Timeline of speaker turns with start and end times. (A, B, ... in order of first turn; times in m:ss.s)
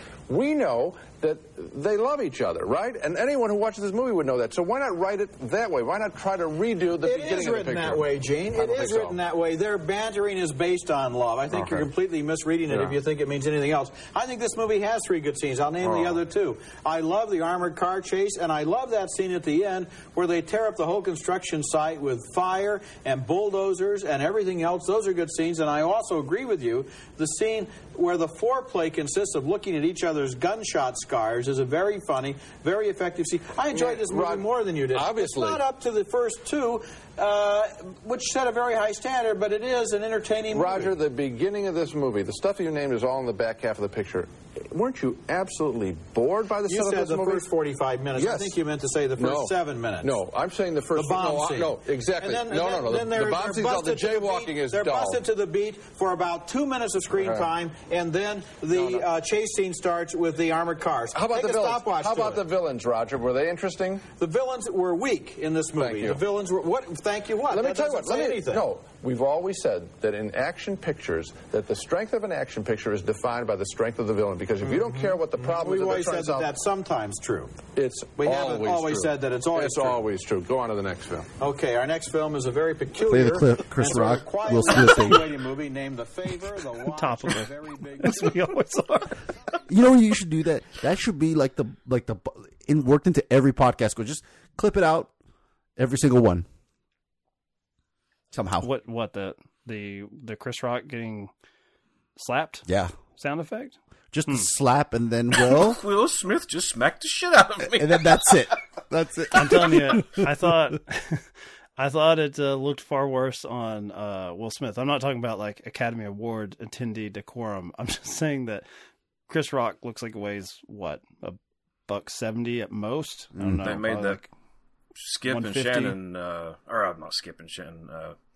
0:00.3-0:09.2 A
0:07.0-0:40.9 B
0:12.7-0:13.0 A
0:15.8-0:16.2 A
0:33.7-0:35.6 A
0:40.5-0:47.4 A
0:46.6-0:50.1 B
0:48.1-0:48.6 A
0:49.2-0:55.2 A
0:50.9-1:02.4 B
0:57.1-0:57.5 A
0:58.7-0:59.0 A
1:01.1-1:04.1 A
1:04.2-1:08.6 B
1:05.8-1:06.2 A
1:07.5-1:16.5 A
1:14.6-1:17.5 B
1:17.8-1:21.3 A
1:18.2-1:20.0 B
1:21.4-1:28.4 B
1:23.0-1:25.3 C
1:26.9-1:29.3 D
1:29.7-1:35.1 C
1:35.8-1:36.4 C
1:38.3-1:38.7 C
1:38.6-1:41.3 D
1:42.2-1:42.6 D
1:42.7-1:42.9 C
1:43.2-1:44.5 D
1:44.1-1:45.8 C
1:45.4-1:48.5 E
1:47.7-1:50.7 C
1:49.3-1:58.6 D
1:59.3-2:04.3 D
2:03.4-2:03.6 C
2:03.6-2:04.2 E
2:05.0-2:08.2 E
2:05.3-2:06.0 D